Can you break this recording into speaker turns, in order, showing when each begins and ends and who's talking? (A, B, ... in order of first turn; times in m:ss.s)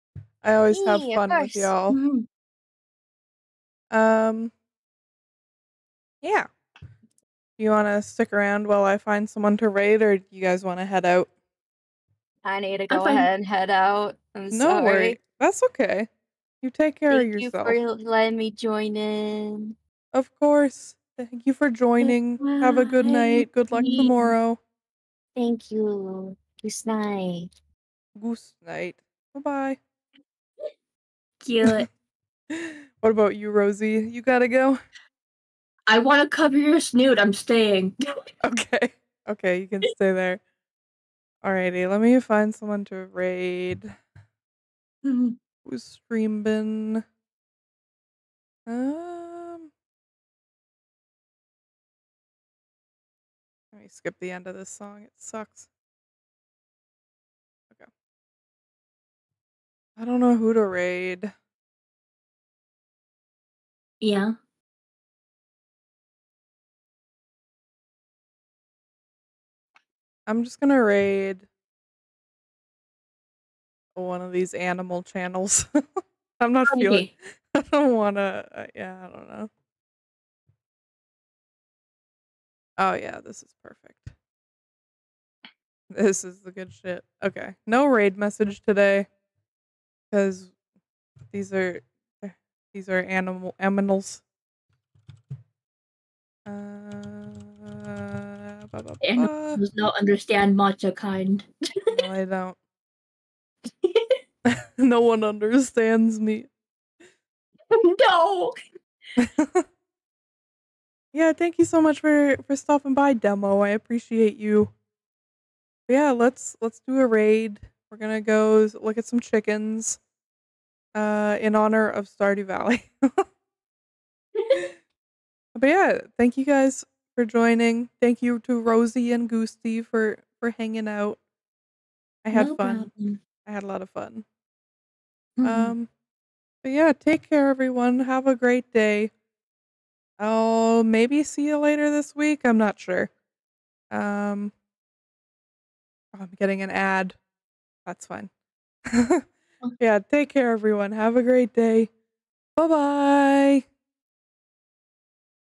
0:00.4-0:02.0 A
0:00.7-0:01.7 B
0:01.9-0:02.3 C
0:03.9-0:04.5 A
0:06.2-0:06.5 A
0:07.6-0:11.3 A
0:12.4-0:15.2 B
0:12.9-0:13.3 C
0:14.5-0:16.1 A
0:16.6-0:17.8 A
0:17.1-0:19.7 B
0:20.1-0:24.6 A
0:22.0-0:24.3 C
0:25.4-0:27.5 B
0:28.1-0:29.8 A
0:31.4-0:31.9 C
0:32.5-0:34.8 A
0:35.9-0:38.2 C
0:38.4-0:40.4 A
0:41.4-0:43.9 A
0:45.0-0:45.4 C
0:45.6-0:47.0 A
0:48.6-0:49.7 A
0:53.7-0:55.7 A
1:00.0-1:01.3 A
1:04.0-1:04.3 C
1:10.3-1:11.5 A
1:13.9-1:19.5 A
1:16.7-1:17.1 C
1:22.8-1:24.1 A
1:25.9-1:29.1 A
1:30.1-1:30.5 A
1:31.3-1:34.2 A
1:36.4-1:39.6 A
1:39.0-1:41.9 C
1:41.9-1:42.6 A
1:43.6-1:44.2 C
1:44.4-1:46.5 A
1:47.7-1:48.6 C
1:49.2-1:49.6 A
1:51.1-1:54.7 A
1:55.9-2:00.0 A
2:00.9-2:03.2 A
2:04.4-2:04.7 C
2:05.5-2:11.2 A
2:12.2-2:12.9 A
2:12.3-2:13.2 C
2:13.4-2:14.2 A
2:15.4-2:15.7 C
2:15.4-2:15.9 A
2:16.6-2:19.1 A
2:20.2-2:23.1 A
2:23.9-2:24.5 A
2:26.1-2:27.2 A
2:27.8-2:28.3 A
2:28.8-2:29.2 A
2:29.8-2:31.9 A
2:32.6-2:33.6 A